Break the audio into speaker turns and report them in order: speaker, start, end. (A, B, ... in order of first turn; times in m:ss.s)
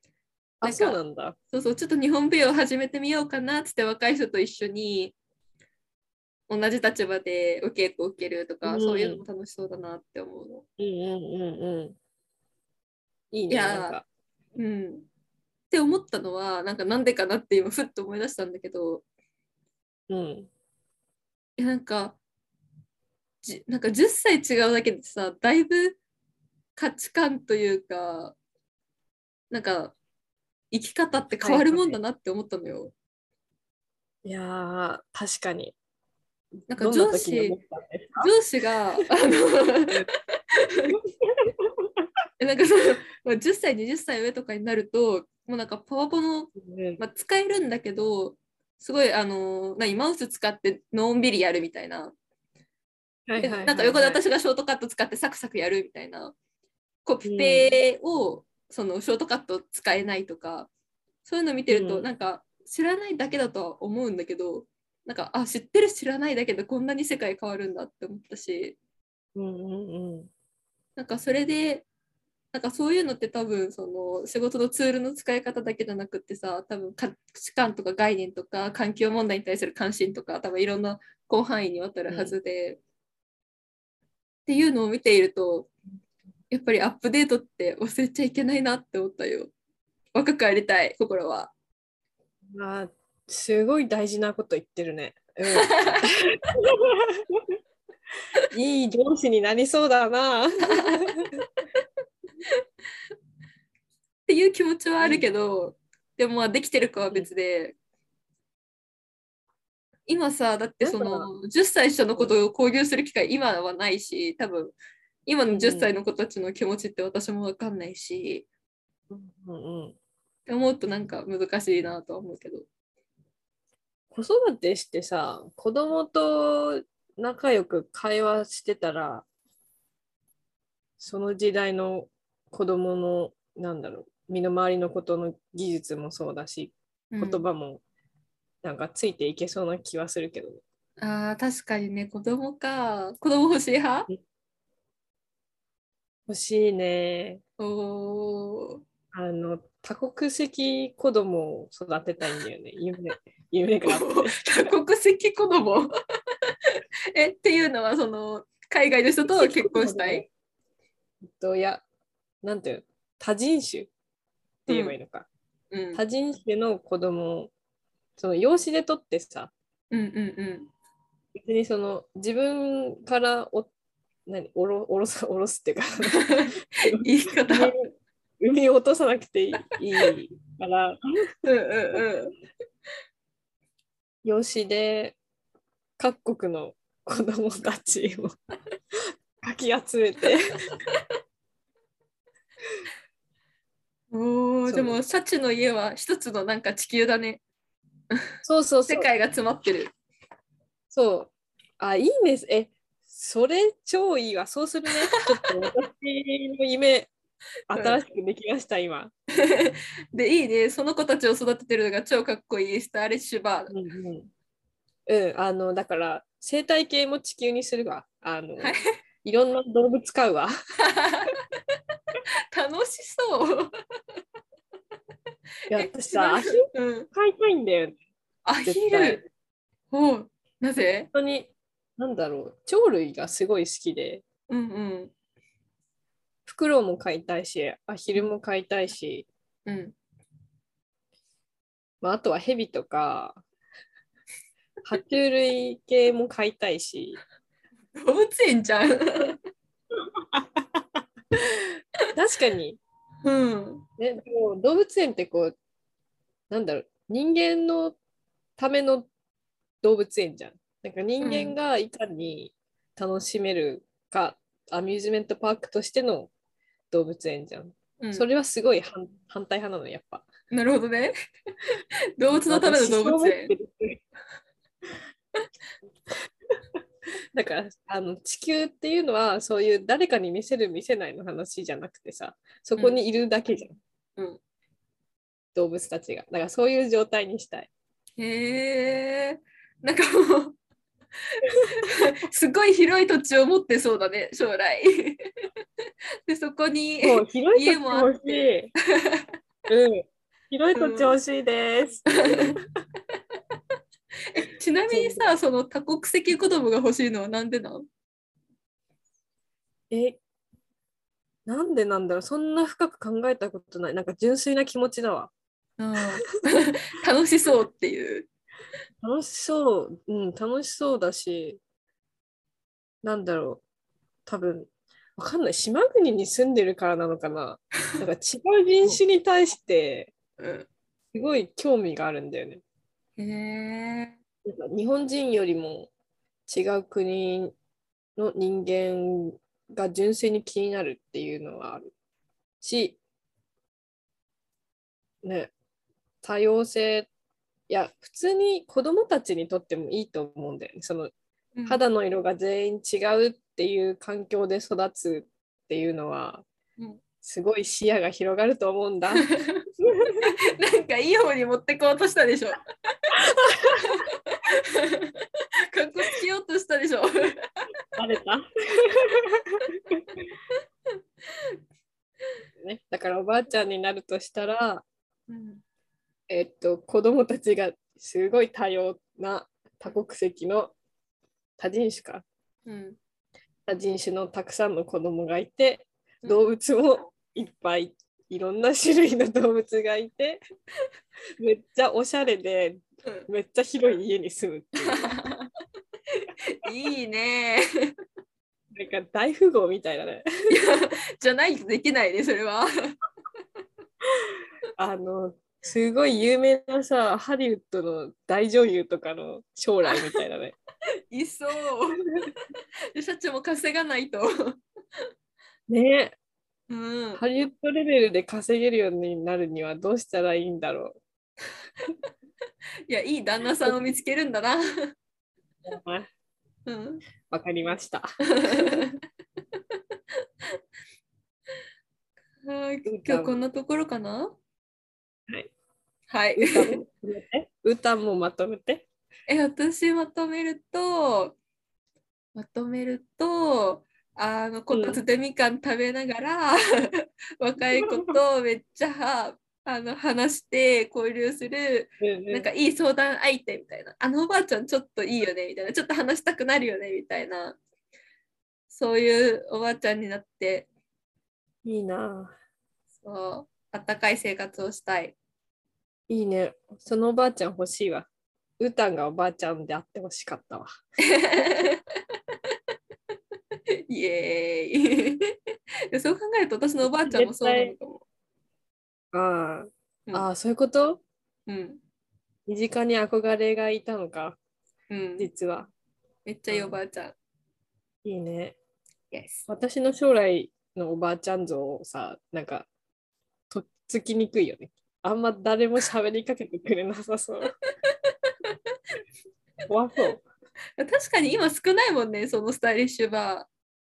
0:00.6-0:01.4 A
0:00.6-0:01.0 B
0:01.5-0:05.1 B
0:06.5-0:10.6 B
0:08.6-0:09.2 A
0:10.8-0:12.0 A
0:13.3-0:14.0 A
0:13.5-0:14.0 B
0:14.6-0:15.1 B
0:15.7-0:19.0 B
0:20.1-0:20.5 A
0:21.6-0:22.2 B
0:23.4-0:26.0 B
0:26.8-0:28.4 B
0:29.5-0:30.0 B
0:30.7-0:32.9 B
0:31.4-0:32.0 A
0:34.2-0:35.8 A
0:36.7-0:37.6 B
0:36.7-0:38.3 A
0:38.2-0:40.0 B
0:40.7-0:41.0 B
0:40.9-0:41.7 A
0:42.4-0:52.1 B
0:46.6-0:47.0 A
0:53.3-0:54.2 A
0:53.4-0:56.3 B
0:57.0-1:00.7 B
0:57.2-0:57.8 A
1:01.2-1:08.8 B
1:01.7-1:02.1 A
1:09.4-1:10.3 A
1:11.0-1:11.8 B
1:12.5-1:22.8 B
1:22.1-1:22.4 A
1:24.4-1:25.7 B
1:26.5-1:29.5 B
1:30.1-1:31.5 B
1:32.5-1:37.4 A
1:35.6-1:36.0 B
1:38.5-1:41.3 A
1:40.7-1:41.1 B
1:44.3-1:47.8 B
1:45.0-1:45.3 A
1:50.1-1:58.4 B
1:50.8-1:51.3 A
1:55.5-1:55.9 A
1:59.1-2:00.0 A
2:00.5-2:02.7 B
2:04.1-2:09.2 A
2:11.0-2:17.8 A
2:17.1-2:17.4 B
2:18.6-2:20.6 A
2:21.0-2:24.1 B
2:26.3-2:27.4 A
2:27.6-2:28.8 B
2:29.1-2:34.7 A
2:33.8-2:35.9 B
2:37.1-2:40.2 B
2:39.3-2:40.3 A
2:41.2-2:41.8 A
2:42.4-2:43.9 A
2:44.7-2:44.9 B
2:44.7-2:45.3 A
2:45.7-2:46.0 B
2:45.9-2:47.5 A
2:48.2-2:49.5 A
2:49.9-2:50.7 B
2:51.3-2:53.7 A
2:54.3-2:57.8 A
2:56.0-2:57.7 B
2:58.4-3:01.2 A
3:01.4-3:02.3 B
3:04.2-3:05.2 A
3:06.0-3:08.3 A
3:08.9-3:10.6 A
3:14.1-3:17.4 B
3:14.6-3:15.0 A
3:18.4-3:19.1 A
3:18.9-3:19.9 B
3:20.9-3:27.1 A
3:27.7-3:29.1 A
3:27.7-3:28.0 B
3:29.4-3:33.7 B
3:33.7-3:34.3 A
3:35.1-3:40.5 A
3:38.6-3:38.9 B
3:40.9-3:41.3 B
3:42.5-3:43.7 B
3:45.7-3:48.0 A
3:45.8-3:47.1 B
3:48.4-3:49.2 B
3:48.6-3:49.3 A
3:49.9-3:51.1 B
3:51.1-3:54.2 A
3:54.5-3:55.1 B
3:56.4-3:59.3 A
3:59.6-3:59.9 B
4:02.0-4:03.4 A
4:04.8-4:07.2 A
4:08.0-4:09.4 B
4:10.3-4:10.8 A
4:12.1-4:12.8 A
4:13.2-4:13.8 B
4:14.0-4:15.5 A
4:16.5-4:18.0 A
4:18.6-4:19.1 A
4:19.8-4:26.3 A
4:21.2-4:21.5 B
4:26.9-4:30.2 A
4:28.0-4:28.3 B
4:30.5-4:31.1 B
4:32.2-4:33.5 B
4:32.3-4:34.0 A
4:37.3-4:43.7 A
4:45.5-4:47.7 A
4:48.2-4:50.5 B
4:51.8-4:55.3 B
4:56.3-4:59.3 B
4:57.0-4:58.7 A
4:59.7-5:02.6 A
5:00.8-5:01.1 B
5:02.2-5:02.5 B
5:04.3-5:07.8 B
5:04.9-5:05.3 A
5:09.9-5:10.2 A
5:11.4-5:15.3 A
5:15.8-5:18.3 B
5:19.0-5:21.6 A
5:23.0-5:23.6 A
5:24.2-5:30.1 A
5:30.4-5:30.7 B
5:31.1-5:32.6 A
5:33.2-5:34.1 B
5:34.4-5:35.9 A
5:36.5-5:37.5 A
5:38.2-5:41.9 A
5:42.6-5:43.0 A
5:45.2-5:45.5 A
5:46.2-5:47.1 A
5:47.7-5:51.1 A
5:51.6-5:51.8 B
5:51.6-5:56.4 A
5:57.2-5:59.3 A
5:59.2-5:59.6 B
5:59.8-6:00.2 A
6:00.2-6:02.6 B
6:03.8-6:07.4 B
6:08.0-6:09.6 A
6:12.6-6:14.8 A
6:15.3-6:15.6 B
6:16.3-6:20.7 A
6:21.6-6:22.2 A
6:22.6-6:23.0 B
6:23.7-6:30.4 A
6:31.4-6:35.2 A
6:34.8-6:35.5 B
6:36.2-6:37.6 B
6:38.7-6:40.5 A
6:40.5-6:43.0 B
6:44.8-6:50.6 A
6:51.1-6:54.6 B
6:55.7-6:56.2 A
6:56.7-6:57.2 B
6:57.2-7:01.0 A
7:02.9-7:04.6 B
7:05.7-7:06.1 A
7:06.6-7:07.0 B
7:07.3-7:08.8 A
7:08.4-7:09.0 B
7:12.4-7:14.4 B
7:12.8-7:13.4 A
7:16.1-7:16.8 B
7:16.4-7:18.8 A
7:19.3-7:21.4 B
7:22.3-7:37.6 B
7:24.7-7:25.0 A
7:27.9-7:28.2 A
7:32.0-7:32.5 A
7:38.7-7:40.7 B
7:41.6-7:42.3 A
7:43.0-7:45.2 B
7:46.1-7:48.1 A
7:48.6-7:50.7 A
7:51.1-7:51.8 B
7:53.9-7:55.3 B
7:55.9-7:58.0 B
7:56.8-7:57.7 A
7:59.1-8:01.0 A
8:01.5-8:01.8 B
8:02.5-8:04.4 A
8:04.9-8:05.3 B
8:05.2-8:05.7 A
8:06.2-8:07.1 B
8:06.5-8:06.8 A
8:08.0-8:08.6 A
8:09.1-8:09.4 B
8:09.5-8:12.7 A
8:13.5-8:17.5 A
8:19.7-8:20.2 A
8:20.8-8:23.5 B